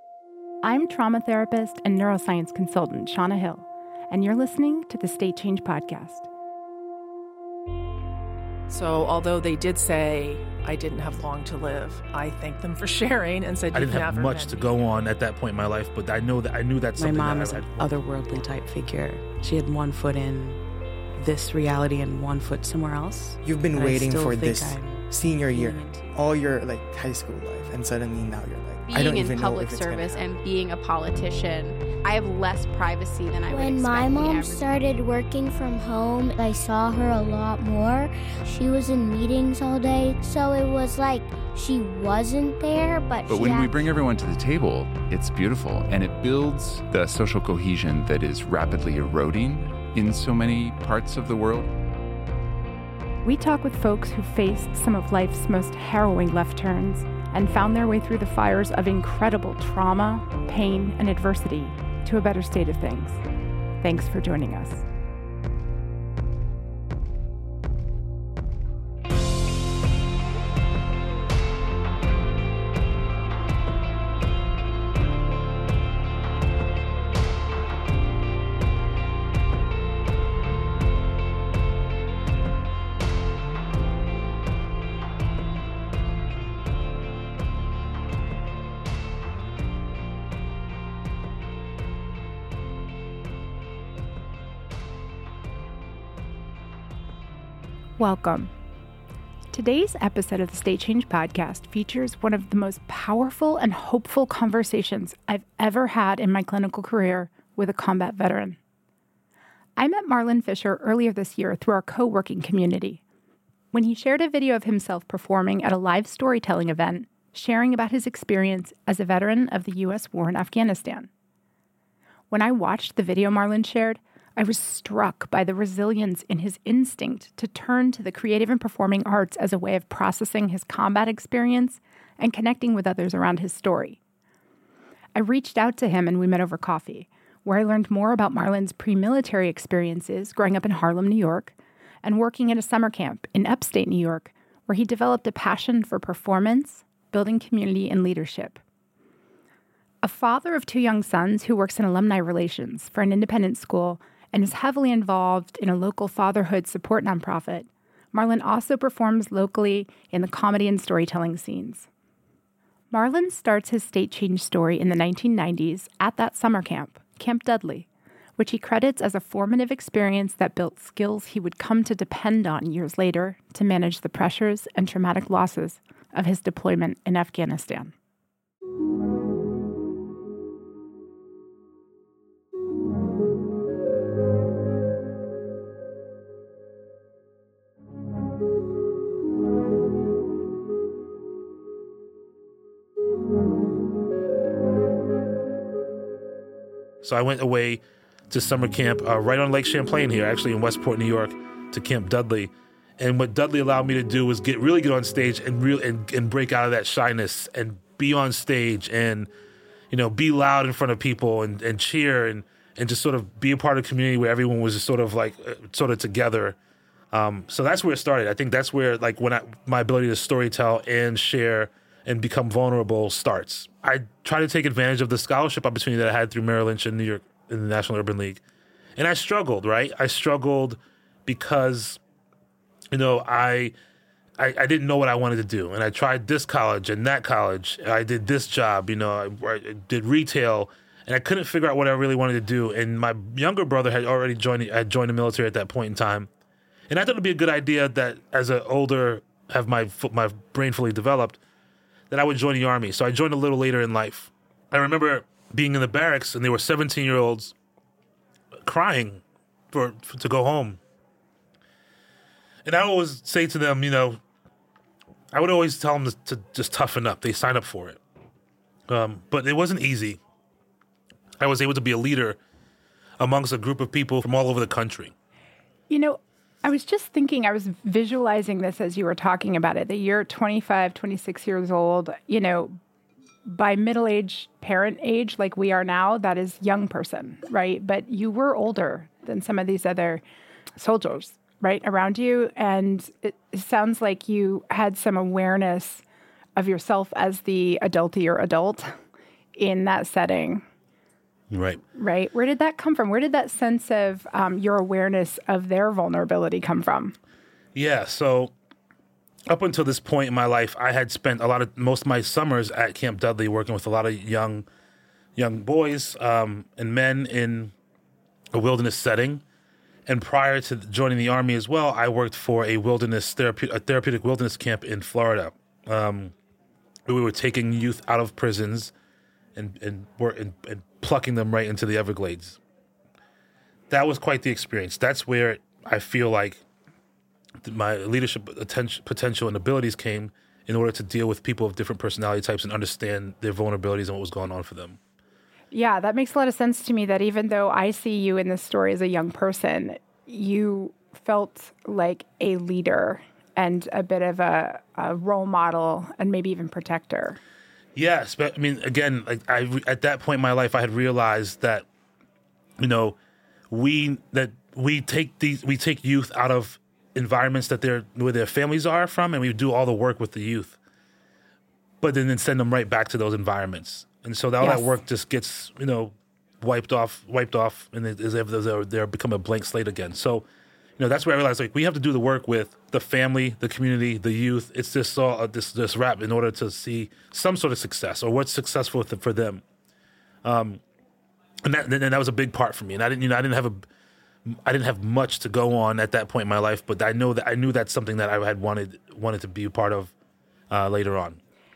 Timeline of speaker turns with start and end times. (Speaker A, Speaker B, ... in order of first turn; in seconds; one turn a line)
Speaker A: 0.6-6.3
Speaker B: 8.7-14.7
Speaker C: 13.7-18.5
Speaker D: 17.0-20.6
Speaker D: 21.2-26.1
Speaker E: 23.4-30.2
Speaker F: 28.9-34.8
Speaker G: 33.5-43.8
Speaker H: 43.3-51.7
Speaker A: 53.2-63.2
Speaker A: 63.8-64.8
Speaker A: 98.0-98.5
Speaker A: 99.5-108.6
Speaker A: 109.8-113.0
Speaker A: 113.7-121.1
Speaker A: 122.3-134.0
Speaker A: 135.2-148.6
Speaker A: 150.0-161.9
Speaker A: 162.9-167.9
Speaker A: 168.4-177.9
Speaker C: 197.0-209.3
Speaker C: 209.9-216.6
Speaker C: 217.1-228.4
Speaker C: 229.0-232.0
Speaker C: 232.9-233.7
Speaker C: 234.4-246.3
Speaker C: 246.9-251.4
Speaker C: 252.1-257.6
Speaker C: 258.6-260.8
Speaker C: 262.6-264.2
Speaker C: 265.3-268.0
Speaker C: 268.9-270.2
Speaker C: 271.4-272.4
Speaker C: 273.2-275.1
Speaker A: 275.9-282.8
Speaker A: 283.4-290.2
Speaker A: 290.8-296.0
Speaker A: 296.6-299.0
Speaker A: 299.6-300.6
Speaker C: 301.5-301.8
Speaker A: 301.9-307.2
Speaker C: 307.8-308.5
Speaker C: 309.5-314.7
Speaker C: 315.4-317.7
Speaker C: 318.5-319.4
Speaker C: 320.1-326.3
Speaker C: 327.1-328.9
Speaker C: 329.6-332.6
Speaker C: 333.9-336.6
Speaker C: 337.6-345.0
Speaker A: 345.7-357.4
Speaker C: 357.9-361.9
Speaker C: 362.8-363.2
Speaker C: 363.7-370.8
Speaker C: 372.0-380.4
Speaker A: 374.6-374.9
Speaker C: 381.0-389.6
Speaker C: 390.4-390.8
Speaker C: 391.6-393.9
Speaker C: 394.4-400.1
Speaker C: 400.7-401.4